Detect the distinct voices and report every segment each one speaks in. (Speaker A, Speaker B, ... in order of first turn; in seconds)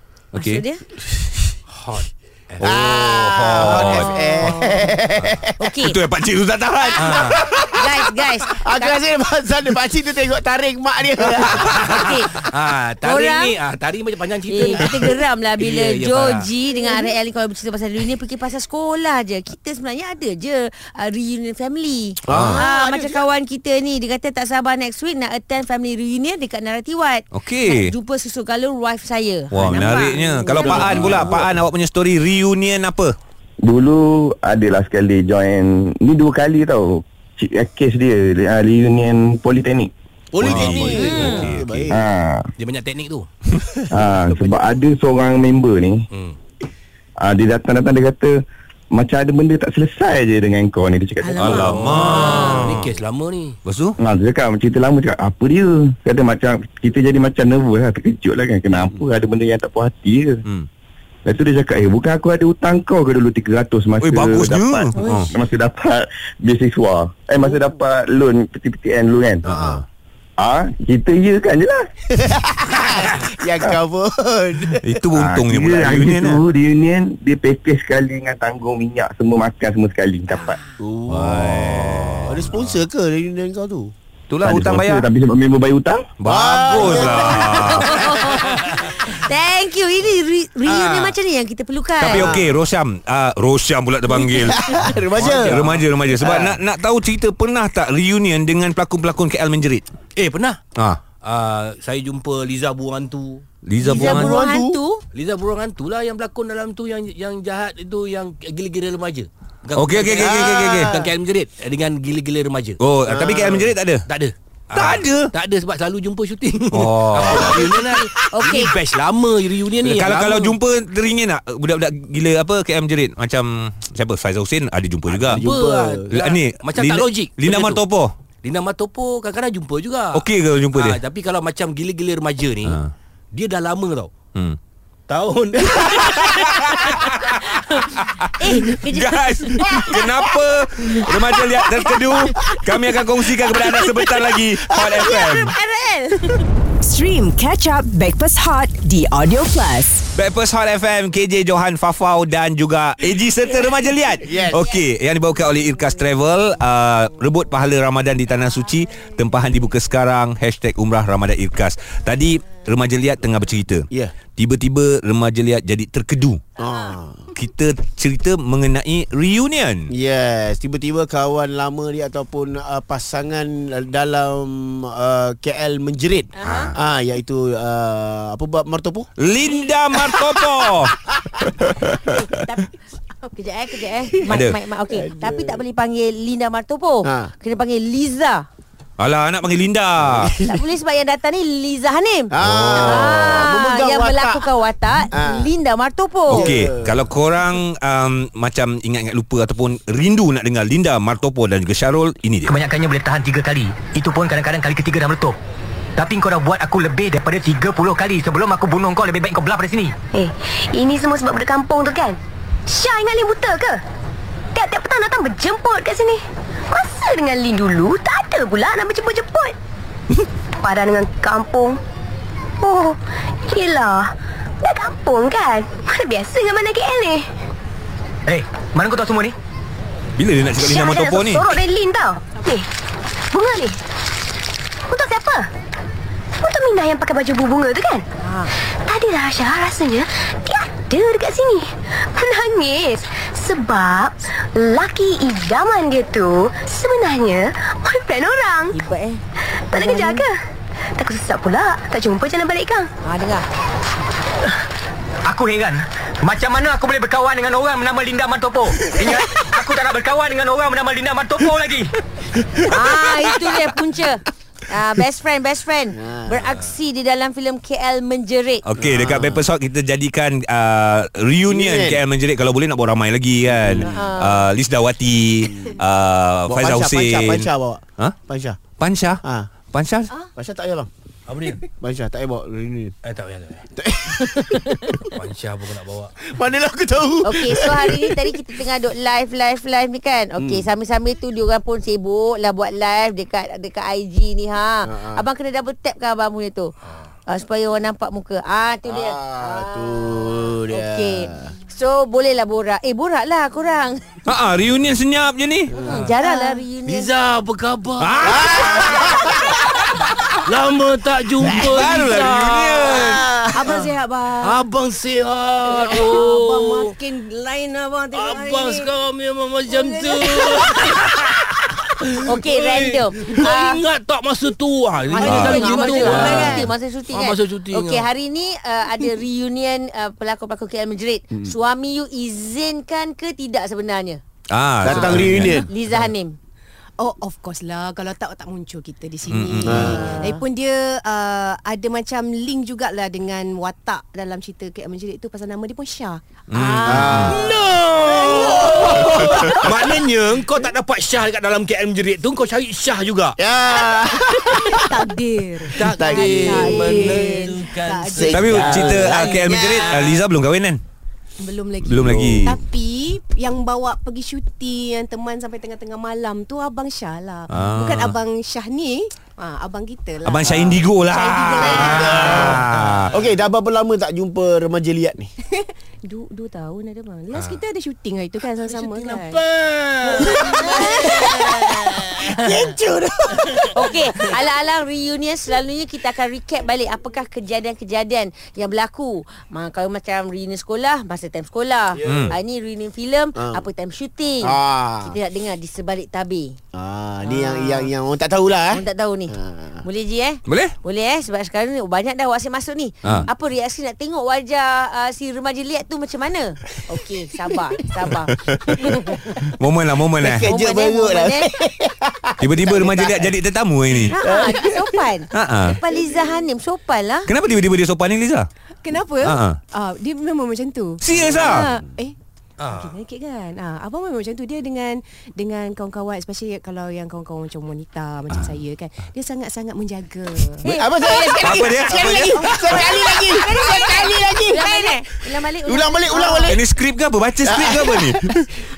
Speaker A: 0.3-0.6, 2.6-4.1, 5.8-7.6, 22.3-22.6, 27.3-27.9, 29.5-33.1, 40.4-41.9, 51.4-52.9, 53.6-54.0, 64.0-65.3, 69.5-69.8, 74.8-76.3, 81.1-82.8, 84.3-85.1, 86.2-87.9, 92.0-94.6, 95.2-99.8, 103.6-104.4, 109.8-110.9, 112.8-114.0, 114.7-115.3, 116.7-117.7, 119.8-125.4, 126.1-128.1, 130.1-131.0, 132.7-132.9, 135.8-145.5, 150.1-166.4, 167.3-169.9, 176.4-176.7, 179.2-182.4, 184.3-184.6, 189.0-190.4, 192.4-193.1, 196.3-202.5, 230.2-231.5, 268.6-277.5, 278.8-280.1, 304.2-305.7, 308.0-309.9, 311.6-313.3, 325.2-326.4, 334.5-335.6, 339.3-339.9, 346.5-347.4, 358.3-360.8, 361.8-362.6, 367.5-368.2, 370.2-373.1, 392.0-392.3, 400.5-400.8, 408.3-408.8, 409.4-410.5, 412.4-414.1, 415.3-415.8, 417.3-418.5, 419.2-419.6, 421.0-421.7, 431.4-433.0, 436.5-438.4
Speaker B: 0.4-0.8, 3.6-5.0, 5.6-6.0, 7.7-9.0, 11.8-12.4, 13.0-13.6, 14.5-30.9, 40.9-41.5, 86.8-92.4, 103.8-105.0, 117.4-118.8, 137.5-137.8, 138.3-140.0, 144.8-146.4, 176.3-176.7, 182.3-188.4, 190.4-196.5, 248.7-250.2, 253.0-253.4, 262.7-268.6, 273.8-274.5, 284.3-285.0, 287.2-296.7, 297.3-304.1, 305.8-307.1, 312.0-312.3, 315.7-317.9, 322.2-323.8, 325.1-334.2, 335.1-336.4, 339.8-340.4, 380.5-381.7, 383.7-396.6, 397.2-397.9, 398.7-409.2, 410.4-411.5, 414.0-417.3, 430.6-432.4, 433.3-436.6
Speaker C: 1.7-2.9, 5.2-5.4, 7.0-7.4, 11.6-16.5, 40.6-41.1, 42.6-43.3, 44.1-44.6, 46.1-46.4, 51.6-53.6, 88.1-88.8, 90.7-91.1, 95.1-95.9, 100.2-100.6, 101.1-103.4, 105.1-112.8, 114.1-120.6, 125.1-127.8, 128.4-132.8, 133.3-134.1, 135.1-136.5, 281.3-281.6, 283.0-283.6, 285.1-286.1, 305.8-306.1, 306.9-309.2, 310.1-313.0, 313.6-313.9, 314.4-316.9, 318.1-328.1, 347.0-353.4, 354.3-354.7, 355.8-359.3, 377.3-377.6, 378.7-382.2, 422.6-422.9
Speaker D: 2.6-5.7, 6.8-7.8, 8.6-12.1, 22.3-23.2, 30.6-31.3, 40.3-42.0, 58.8-59.0, 69.5-69.8, 72.2-75.0, 80.8-83.9, 86.2-87.9, 92.1-92.5, 94.4-96.6, 103.8-104.8, 110.1-111.1, 113.0-113.8, 125.3-126.1, 141.5-141.9, 154.2-154.6, 166.6-167.2, 169.9-179.1, 180.0-180.3, 184.9-185.6, 187.0-187.3, 190.0-190.6, 192.3-194.5, 195.1-195.5, 196.3-197.0, 265.9-266.5, 268.8-269.4, 271.5-272.0, 273.4-274.0, 276.5-278.6, 279.2-279.5, 280.3-280.9, 281.6-282.9, 283.8-284.9, 286.2-288.4, 290.4-290.7, 294.9-295.2, 298.8-301.5, 305.7-306.1, 308.2-309.5, 311.4-311.8, 312.8-313.7, 326.0-326.6, 334.8-335.7, 339.6-340.3, 346.8-347.4, 348.3-349.5, 353.4-354.9, 355.8-357.2, 358.1-360.2, 361.9-362.5, 370.4-370.8, 371.6-375.3, 380.2-384.1, 391.9-392.4, 393.4-393.6, 394.4-395.2, 396.7-399.8, 408.8-409.2, 410.2-413.3, 414.1-415.1, 421.4-421.7, 430.6-434.9, 435.6-436.6, 437.4-438.5
Speaker E: 30.9-31.2, 33.6-39.9, 40.5-40.9, 41.9-42.4, 43.9-46.0, 47.2-48.3, 48.9-51.7, 54.0-60.4, 61.2-69.5, 70.4-71.8, 75.1-80.6, 84.4-86.1
Speaker F: 51.2-52.6, 313.5-314.6, 315.9-316.7, 317.6-318.8, 337.0-348.9, 354.6-359.2, 361.4-372.6, 375.5-379.4, 380.2-380.7, 418.8-430.6, 431.6-433.1
Speaker G: 146.8-150.1
Speaker H: 202.5-205.3, 206.0-209.9, 228.8-229.3, 255.3-259.0, 259.5-261.8
Speaker I: 210.1-213.8, 214.5-219.6, 220.6-221.8, 222.6-227.2, 228.3-229.3, 230.6-232.7, 233.3-233.8, 234.9-235.5, 236.4-248.8, 249.7-250.4, 250.9-252.9, 258.8-259.3